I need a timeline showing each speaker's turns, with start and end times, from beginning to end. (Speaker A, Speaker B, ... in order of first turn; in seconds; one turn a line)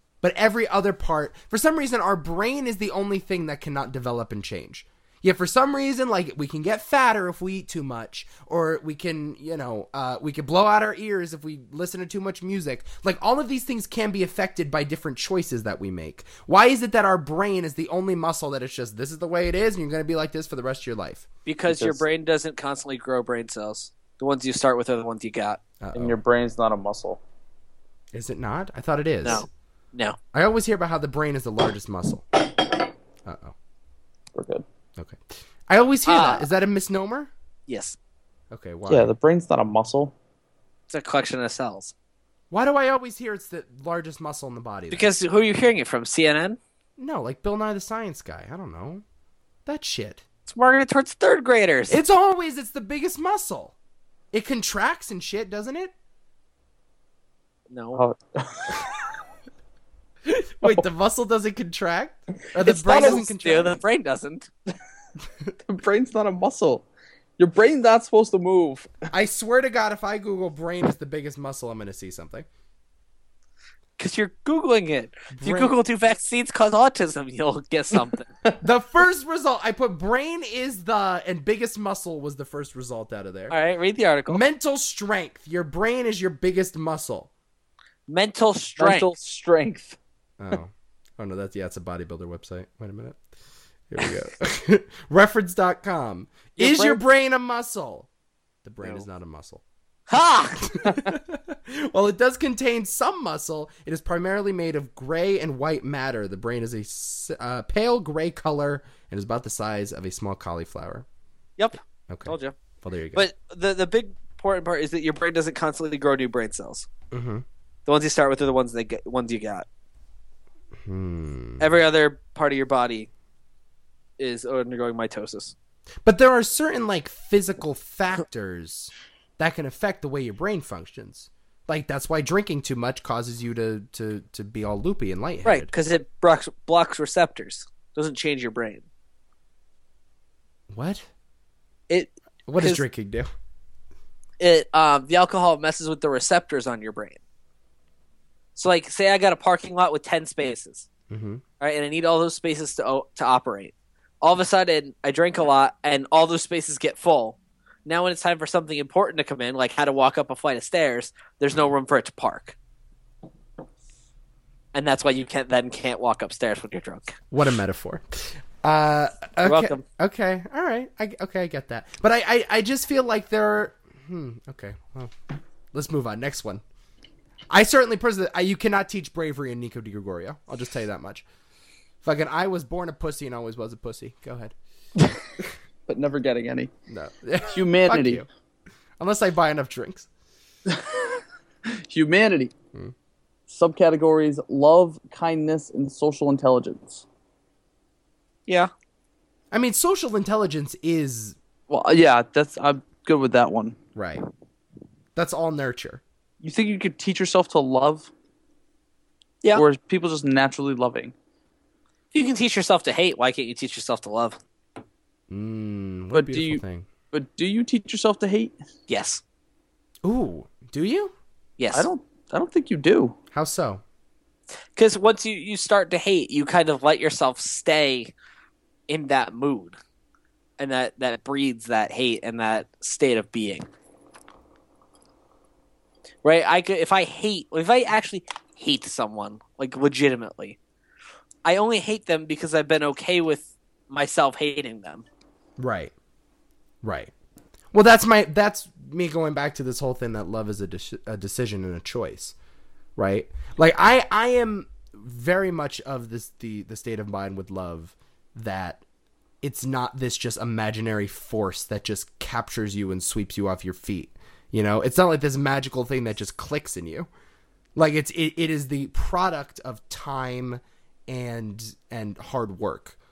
Speaker A: 0.2-21.3
Speaker B: 21.4-25.6
Speaker C: 21.7-22.0
Speaker A: 25.8-26.2
Speaker C: 25.9-27.2
Speaker A: 28.1-29.4
Speaker B: 29.2-30.2
Speaker A: 30.3-32.4
Speaker A: 33.2-33.5
Speaker C: 34.3-34.6
Speaker A: 35.0-37.3
Speaker B: 36.0-36.5
Speaker B: 37.7-38.0
Speaker A: 38.5-39.1
Speaker C: 38.9-40.1
Speaker B: 40.9-41.9
Speaker A: 42.5-45.1
Speaker B: 44.9-46.6
Speaker A: 47.0-49.0
Speaker A: 49.6-50.2
Speaker B: 50.5-52.0
Speaker A: 51.9-53.7
Speaker A: 54.3-55.9
Speaker B: 57.7-58.0
Speaker C: 58.0-59.0
Speaker A: 60.2-63.8
Speaker C: 62.6-63.2
Speaker B: 62.6-64.5
Speaker C: 65.6-66.8
Speaker C: 67.4-68.9
Speaker A: 69.1-72.5
Speaker B: 74.0-78.3
Speaker A: 75.3-75.8
Speaker A: 78.6-83.5
Speaker B: 83.5-84.4
Speaker A: 84.3-87.3
Speaker B: 88.1-89.1
Speaker C: 88.8-90.0
Speaker A: 90.4-93.2
Speaker A: 93.9-98.1
Speaker B: 96.6-97.0
Speaker A: 98.6-99.6
Speaker B: 100.1-100.9
Speaker A: 100.6-111.0
Speaker B: 111.6-112.5
Speaker A: 112.1-113.3
Speaker B: 113.1-116.9
Speaker A: 117.1-117.4
Speaker B: 117.9-119.7
Speaker A: 120.8-121.7
Speaker B: 121.6-123.1
Speaker B: 124.2-125.5
Speaker A: 126.0-135.7
Speaker B: 135.4-138.8
Speaker A: 140.7-141.0
Speaker B: 141.9-142.8
Speaker A: 142.5-143.3
Speaker B: 144.4-147.2
Speaker B: 148.6-150.9
Speaker A: 151.1-151.4
Speaker B: 151.6-162.5
Speaker B: 164.7-167.2
Speaker A: 167.3-175.1
Speaker B: 169.4-169.8
Speaker A: 175.7-176.6
Speaker A: 177.5-181.2
Speaker A: 182.0-184.5
Speaker C: 185.9-186.7
Speaker A: 186.9-188.3
Speaker C: 187.4-188.2
Speaker A: 189.0-190.1
Speaker C: 190.7-192.5
Speaker C: 193.5-197.0
Speaker A: 199.5-201.4
Speaker C: 201.7-203.8
Speaker A: 203.9-204.2
Speaker A: 205.2-206.0
Speaker C: 206.4-208.1
Speaker C: 209.5-211.1
Speaker B: 212.1-214.4
Speaker A: 215.3-216.9
Speaker C: 216.1-218.6
Speaker B: 218.9-219.2
Speaker A: 220.0-221.1
Speaker B: 221.6-221.9
Speaker C: 221.7-223.1
Speaker A: 223.3-223.8
Speaker B: 224.8-228.1
Speaker B: 228.9-229.8
Speaker B: 230.6-233.7
Speaker B: 236.2-240.6
Speaker B: 241.4-245.0
Speaker A: 245.6-245.9
Speaker A: 246.8-247.1
Speaker A: 247.7-252.3
Speaker A: 253.0-258.8
Speaker A: 259.4-267.1
Speaker A: 267.8-273.0